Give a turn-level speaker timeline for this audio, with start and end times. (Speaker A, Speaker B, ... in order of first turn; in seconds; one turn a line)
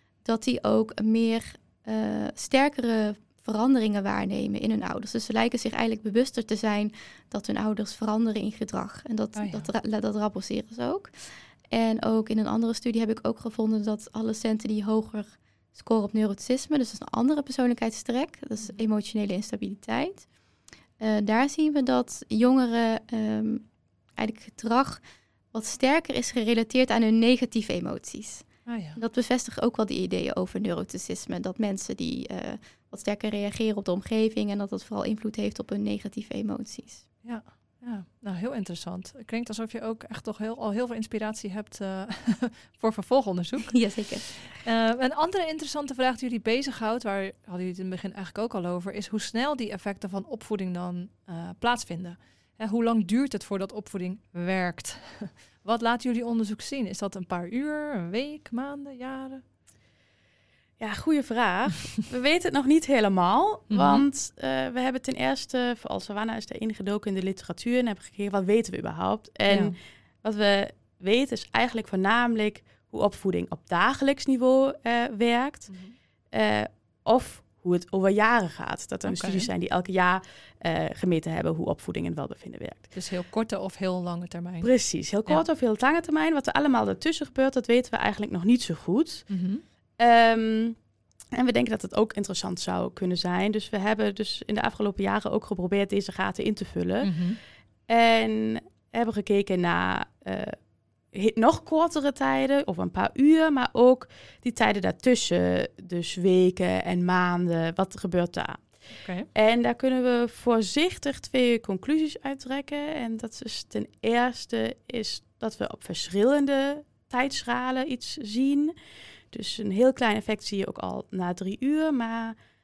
Speaker A: 0.2-20.3
Speaker B: 9.3-9.7
Speaker A: 21.0-23.6
Speaker A: 24.2-37.0
Speaker B: 28.6-29.0
Speaker B: 37.2-59.4
Speaker A: 43.7-44.3
Speaker C: 60.8-82.9
Speaker B: 63.7-64.0
Speaker B: 69.5-69.8
Speaker B: 75.7-75.9
Speaker B: 79.0-79.5
Speaker B: 82.9-85.4
Speaker C: 84.6-90.8
Speaker B: 89.3-89.6
Speaker C: 91.3-97.3
Speaker B: 97.0-97.4
Speaker C: 97.9-100.6
Speaker C: 101.1-118.7
Speaker B: 108.9-109.3
Speaker C: 119.3-122.4